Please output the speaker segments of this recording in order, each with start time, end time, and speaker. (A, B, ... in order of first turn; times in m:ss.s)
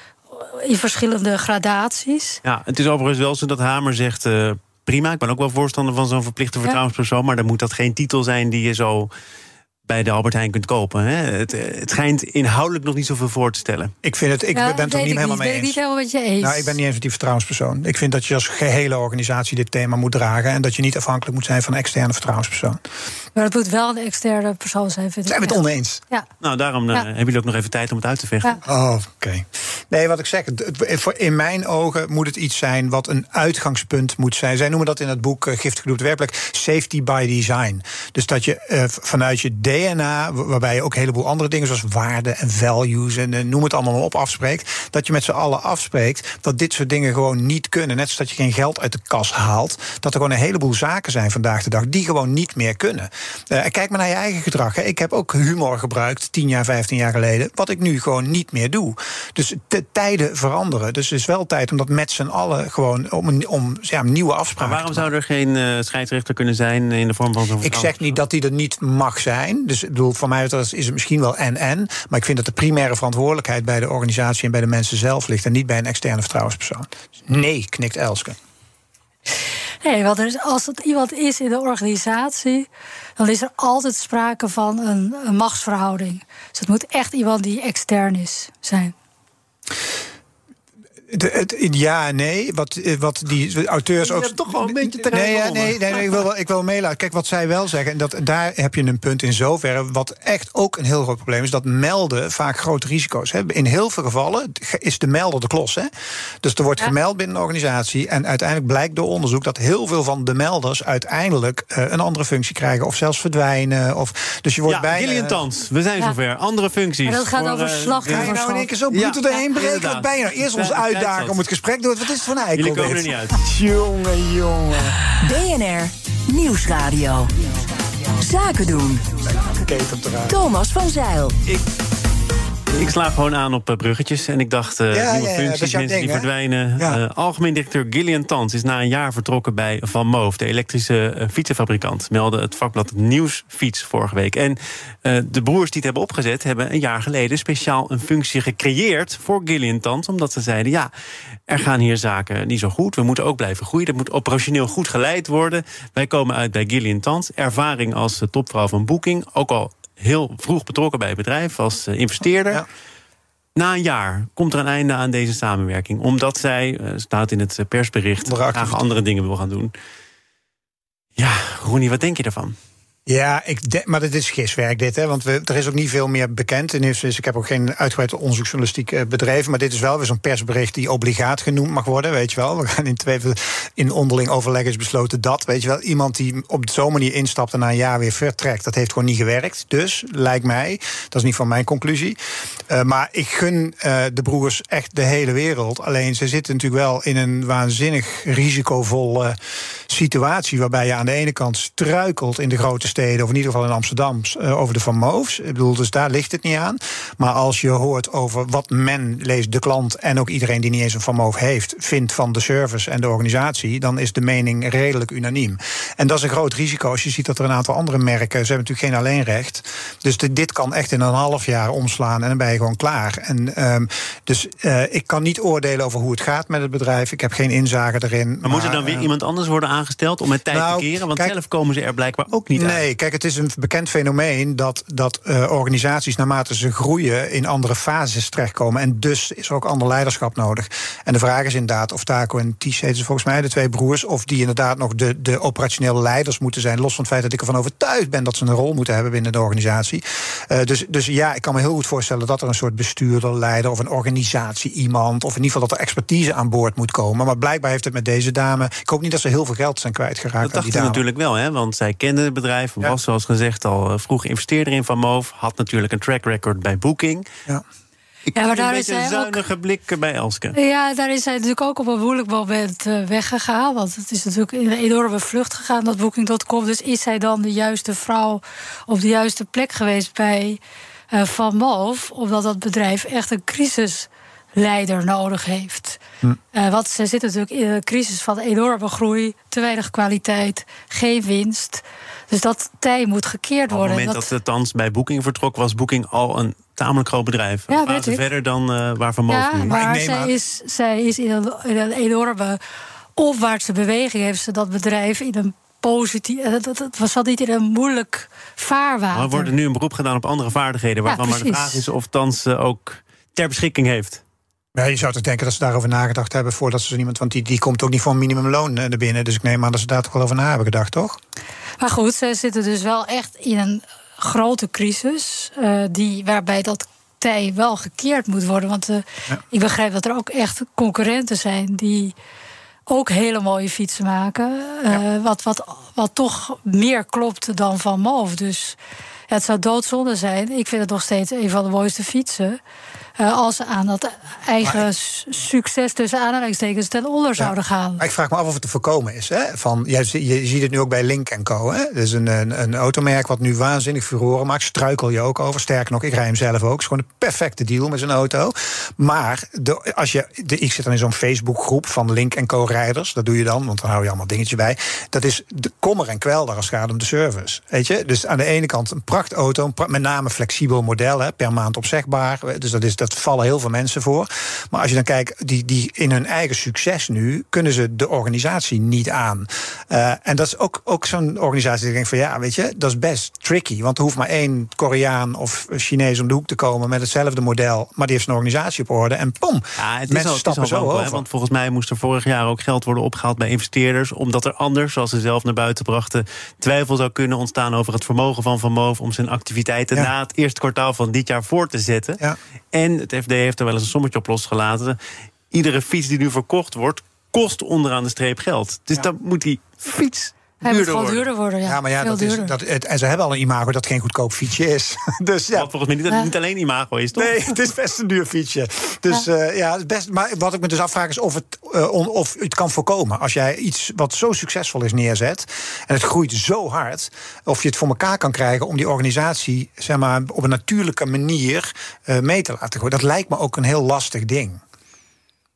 0:00.3-0:02.4 A
0:02.4-0:09.1 B
0:09.8-0:13.9 B
0:14.0-0:15.8 C
0:14.5-0:16.8 A
0:16.4-0:22.8 C
0:23.3-0:26.3 A
0:25.3-0:26.0 C
0:26.4-0:28.6 B
0:28.6-1:05.1 C
1:04.6-1:08.2 B
1:07.6-1:18.4 C
1:19.8-1:28.9 A
1:31.1-1:45.9 C
1:34.0-1:36.2 B
1:46.4-1:55.4 C
1:54.6-1:58.4 B
1:57.0-1:58.7 A
1:58.1-2:05.0 C
1:58.9-2:01.4 B
2:02.6-2:03.4 B
2:05.2-2:07.3 D
2:08.1-2:09.4 D
2:09.3-2:10.4 C
2:10.3-2:11.4 D
2:12.7-2:30.9 B
2:14.9-2:17.0 C
2:31.5-2:42.6 B
2:43.6-2:49.7 B
2:48.2-2:48.9 C
2:51.2-2:52.6 B
2:53.1-3:12.2 C
3:12.7-3:19.4 C
3:19.9-3:49.1 C
3:48.4-3:52.8 B
3:50.5-3:51.3 C
3:52.5-4:21.0 C
4:20.4-4:27.2 B
4:28.3-4:30.6 B
4:28.3-4:29.4 A
4:30.5-4:40.6 A
4:41.1-4:46.0 A
4:46.5-4:54.3 A
4:53.7-4:59.7 B
4:57.7-4:58.2 A
4:59.3-5:02.6 A
4:59.7-5:00.3 C
5:03.2-5:09.5 A
5:09.1-5:14.2 B
5:11.0-5:11.8 A
5:14.7-5:21.2 C
5:21.8-5:32.1 A
5:32.9-5:38.8 A
5:39.3-5:42.6 A
5:43.2-5:48.0 A
5:47.4-6:31.2 C
6:29.8-6:42.2 B
6:42.7-6:45.0 B
6:45.5-6:51.2 B
6:50.6-6:52.5 A
6:51.6-6:55.7 C
6:55.6-6:57.5 B
6:57.1-7:14.6 C